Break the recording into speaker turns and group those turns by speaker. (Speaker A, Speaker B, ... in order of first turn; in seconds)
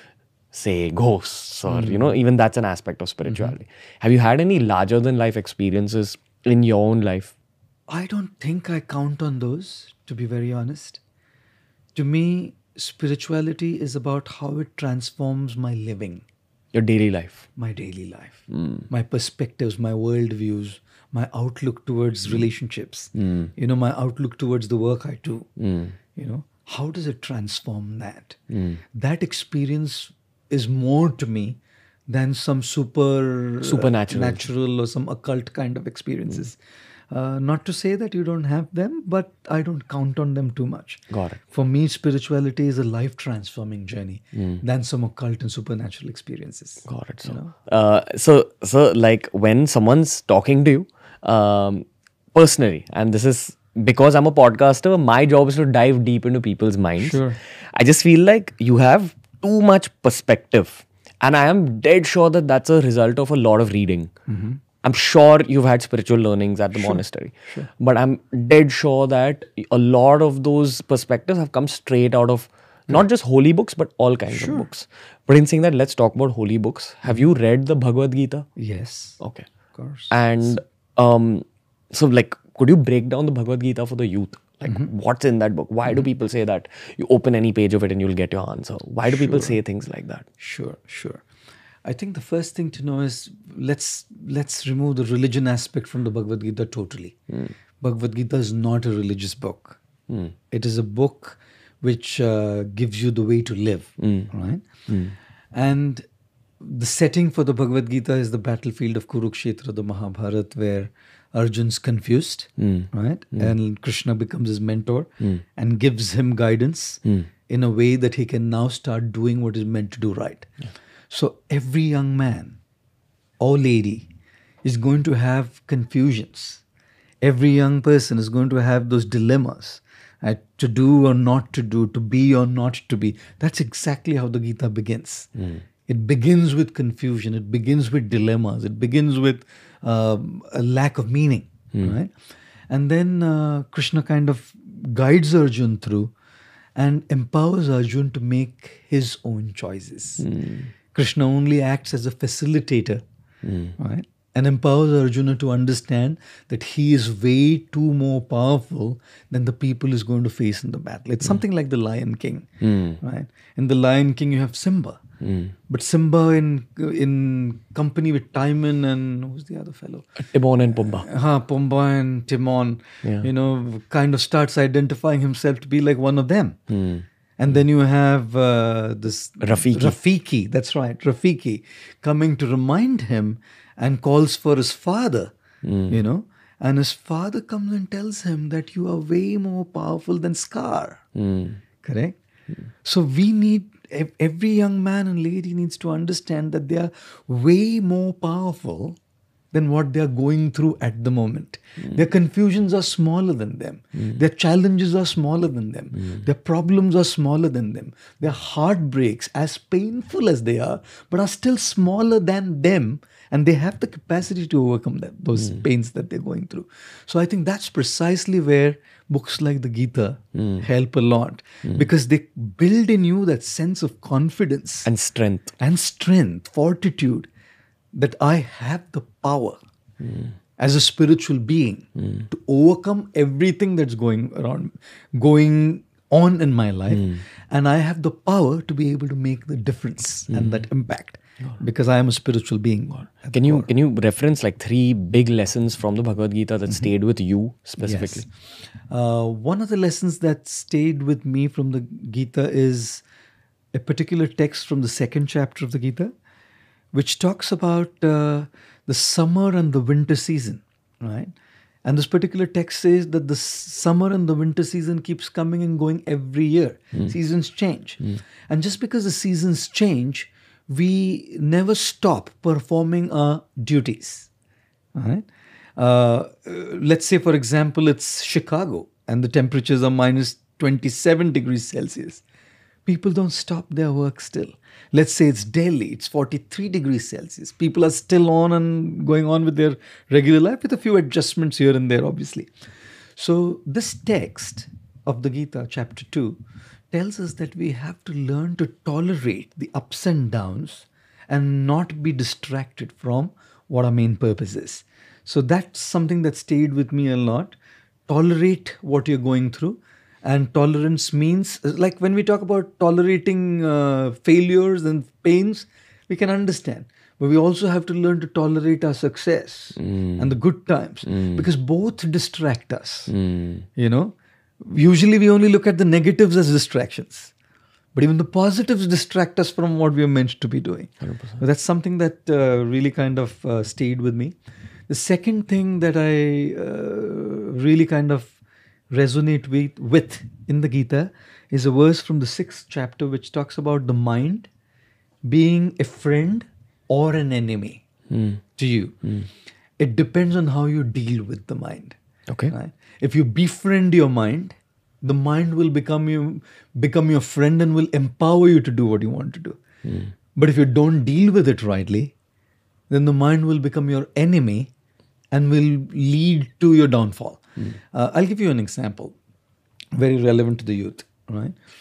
Speaker A: 0.5-7.3, 16.7-17.5, 18.5-18.8, 23.2-23.5, 25.6-26.0, 28.5-28.8, 33.6-34.5, 41.1-41.4, 44.4-44.6, 46.9-57.2, 57.7-64.1, 64.8-78.5, 79.2-79.5, 80.1-90.2, 100.1-100.3, 104.0-104.3, 104.9-105.2, 112.6-113.5, 150.2-150.7, 153.4-153.8, 162.6-163.0, 165.2-165.5, 170.2-171.1, 173.0-173.3, 176.7-177.1, 179.4-180.0, 185.6-186.0, 191.2-191.6, 215.4-215.6, 220.4-220.7, 224.8-225.5, 230.0-230.3, 240.3-240.7, 243.3-248.3, 319.8-320.4, 321.1-321.4, 323.1-323.7, 331.0-331.4, 348.1-348.4, 352.3-352.5, 359.9-360.1
Speaker B: 1.7-2.2, 3.2-3.6, 7.9-11.0, 11.9-16.2, 17.6-25.5, 26.2-28.4, 28.9-36.6, 37.1-47.5, 57.0-57.4, 64.3-64.6, 66.8-67.7, 74.3-74.7, 78.6-79.2, 79.8-80.6, 84.7-84.9, 89.1-89.6, 90.4-91.2, 91.8-97.2, 97.8-99.8, 100.5-104.7, 105.5-106.0, 106.6-120.5, 121.1-122.6, 123.4-124.1, 124.6-126.6, 127.2-135.3, 135.9-142.1, 142.7-146.1, 146.8-150.2, 150.9-153.0, 153.8-162.5, 163.0-165.0, 165.7-170.1, 170.7-176.6, 177.4-185.3, 185.9-191.0, 191.8-192.2, 192.8-199.0, 199.5-224.9, 225.6-227.3, 227.9-229.6, 230.6-243.7, 247.8-248.3, 248.9-253.0, 253.7-256.1, 256.9-261.3, 261.9-274.3, 274.9-275.3, 275.8-282.2, 282.9-292.5, 293.2-296.4, 296.9-307.6, 308.1-323.1, 323.8-327.3, 327.9-334.4, 334.9-338.4, 338.9-344.5, 345.3-347.8, 348.6-349.0, 349.8-352.0, 352.5-359.6, 360.4-362.1, 362.9-364.7, 365.3-367.4, 367.9-369.2, 369.9-371.6